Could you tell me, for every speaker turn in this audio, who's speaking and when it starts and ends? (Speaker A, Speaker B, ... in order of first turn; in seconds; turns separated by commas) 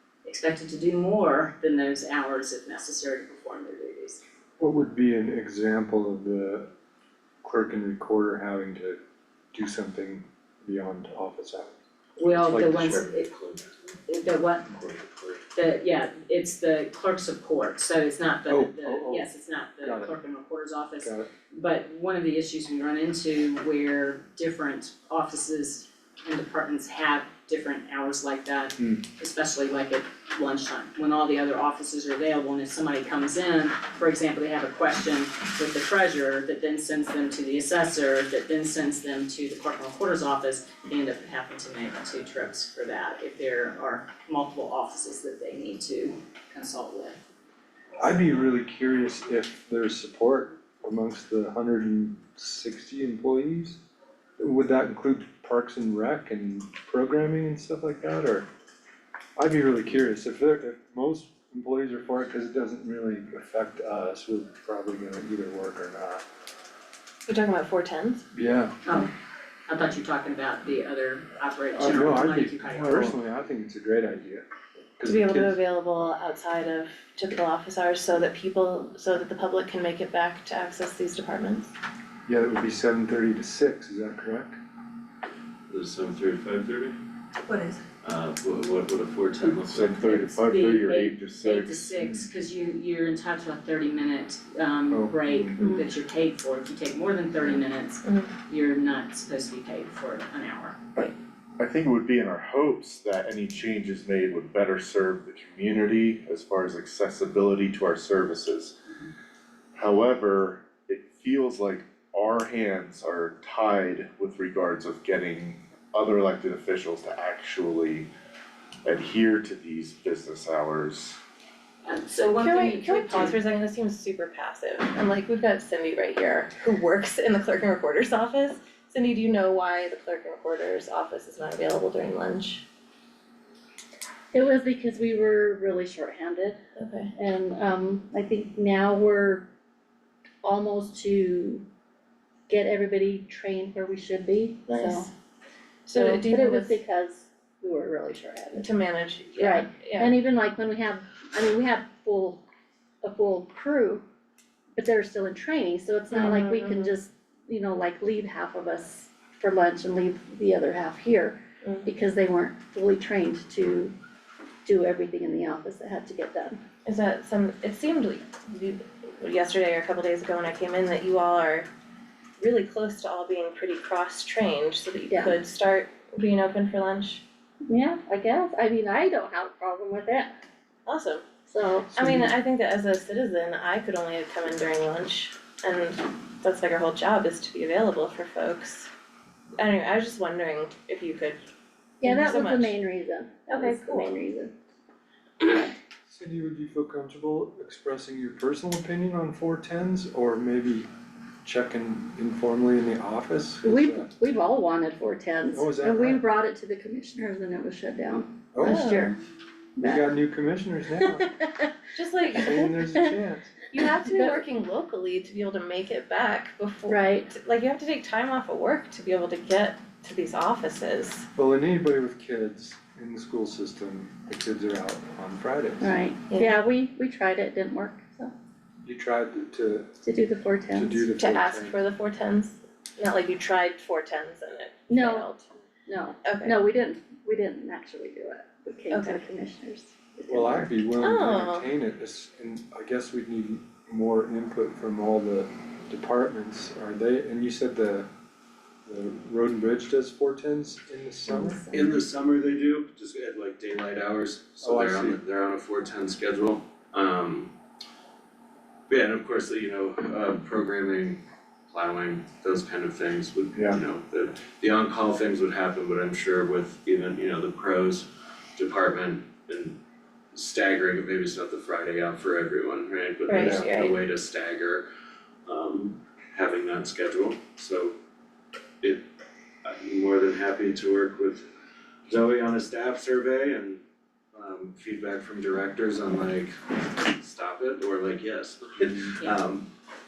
Speaker A: 0.2-4.2, Speaker B: 4.6-6.7, Speaker B: 7.4-9.0, Speaker B: 9.5-11.8, Speaker A: 12.2-13.3, Speaker B: 12.4-13.1, Speaker C: 13.3-13.7, Speaker A: 14.1-14.7, Speaker B: 14.7-15.2, Speaker A: 15.5-47.2, Speaker B: 18.5-19.3, Speaker B: 19.8-20.1, Speaker B: 21.0-21.3, Speaker B: 48.0-53.8, Speaker B: 54.4-58.5, Speaker B: 59.4-66.2, Speaker D: 67.3-68.2, Speaker B: 68.3-68.8, Speaker A: 68.8-69.1, Speaker A: 69.7-73.2, Speaker B: 71.8-74.5, Speaker B: 75.0-75.6, Speaker D: 75.0-81.7, Speaker B: 82.2-84.6, Speaker C: 85.7-87.0, Speaker C: 88.0-90.2, Speaker E: 89.4-92.0, Speaker A: 90.0-100.8, Speaker B: 94.9-95.6, Speaker E: 101.0-108.8, Speaker E: 109.7-118.1, Speaker E: 118.8-121.2, Speaker A: 121.8-123.4, Speaker D: 122.3-132.6, Speaker F: 134.3-136.6, Speaker D: 136.8-137.1, Speaker F: 137.2-139.5, Speaker F: 140.4-141.6, Speaker F: 142.5-145.1, Speaker D: 144.7-145.1, Speaker D: 145.9-146.8, Speaker F: 145.9-148.7, Speaker D: 148.6-150.2, Speaker F: 149.4-152.4, Speaker F: 153.0-154.0, Speaker F: 154.8-163.9, Speaker D: 156.1-157.0, Speaker D: 161.6-161.9, Speaker F: 164.7-166.6, Speaker D: 166.8-171.7, Speaker D: 172.4-177.2, Speaker F: 175.1-175.4, Speaker F: 177.7-180.4, Speaker D: 180.9-181.2, Speaker F: 181.5-182.2, Speaker D: 181.9-188.9, Speaker D: 189.6-191.4, Speaker F: 192.0-194.5, Speaker D: 192.0-192.8, Speaker D: 193.5-194.2, Speaker F: 195.4-195.7, Speaker B: 196.1-200.9, Speaker B: 201.4-204.1, Speaker F: 203.6-209.2, Speaker B: 205.5-206.2, Speaker B: 208.5-209.0, Speaker D: 208.6-209.1, Speaker F: 209.8-210.1, Speaker B: 209.8-211.4, Speaker D: 211.9-212.8, Speaker B: 212.3-213.6, Speaker D: 213.7-221.3, Speaker F: 214.0-214.4, Speaker F: 216.9-217.3, Speaker B: 221.3-226.0, Speaker F: 225.8-228.3, Speaker D: 226.3-226.6, Speaker B: 228.8-230.0, Speaker F: 230.0-231.1, Speaker B: 230.7-231.8, Speaker D: 231.2-235.5, Speaker F: 234.9-235.3, Speaker F: 235.9-240.9, Speaker D: 236.2-236.6, Speaker D: 238.9-239.2, Speaker B: 240.3-248.1, Speaker D: 241.0-241.7, Speaker B: 248.9-251.6, Speaker F: 251.3-252.0, Speaker C: 251.7-257.5, Speaker B: 254.6-255.2, Speaker C: 258.9-269.8, Speaker C: 270.3-274.9, Speaker D: 273.3-274.0, Speaker B: 273.4-273.7, Speaker C: 275.5-277.9, Speaker C: 278.8-279.1, Speaker C: 279.6-281.5, Speaker C: 282.1-283.8, Speaker C: 284.3-289.7